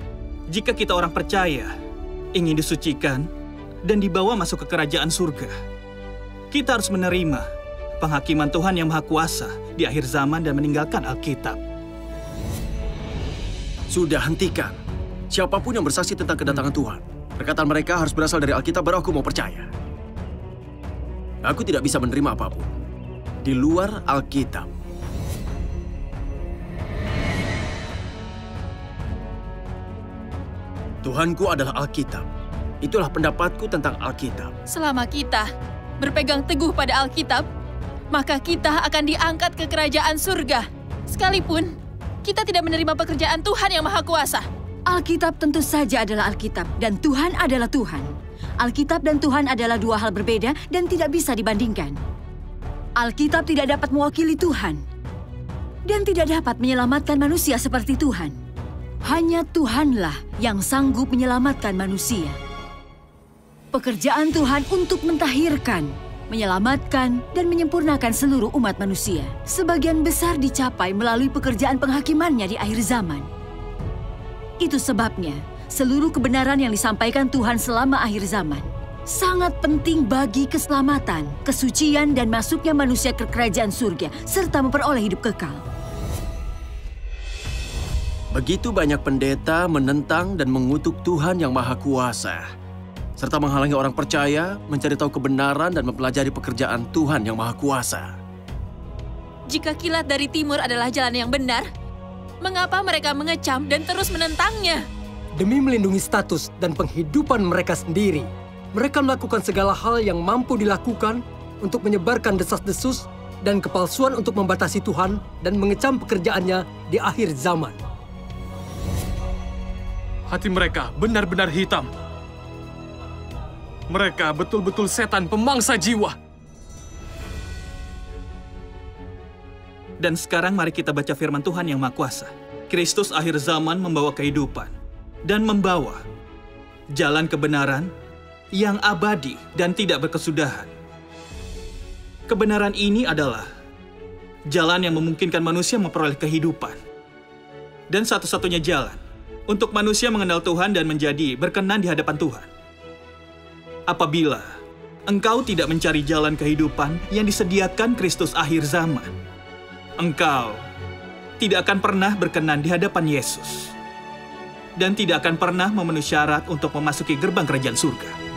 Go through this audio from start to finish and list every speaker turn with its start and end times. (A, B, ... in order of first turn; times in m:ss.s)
0:00.5-0:01.7 A
0:02.3-0:03.3 A
0:03.8-0:05.5 A
0:06.5-0:07.4 A
0:08.0-0:11.6 A
0:13.9-0:14.8 B
0:15.3-0:19.7 B
0:21.4-0:22.7 B
0:23.4-0:24.7 B
0:31.0-0:32.3 B
0:32.8-0:34.5 B
0:34.7-0:35.5 C
0:36.0-0:37.4 C
0:38.1-0:44.5 C
0:44.9-0:52.0 D
0:53.0-0:54.8 D
0:55.9-0:58.4 D
0:59.0-1:02.4 D
1:03.7-1:13.3 D
1:14.6-1:25.6 D
1:28.3-1:32.4 B
1:33.2-1:38.2 B
1:39.5-1:41.7 C
1:42.4-1:44.8 C
1:45.4-1:57.8 E
2:00.3-2:01.9 F
2:03.9-2:06.1 F
2:10.0-2:14.7 A
2:15.2-2:16.0 A
2:17.0-2:17.9 A
2:18.5-2:20.7 A
2:22.3-2:23.5 A
2:24.5-2:26.8 A
2:27.9-2:32.5 A
2:33.9-2:34.5 A
2:35.1-2:39.1 A
2:40.0-2:40.6 A
2:41.4-2:43.7 A
2:44.8-2:48.1 A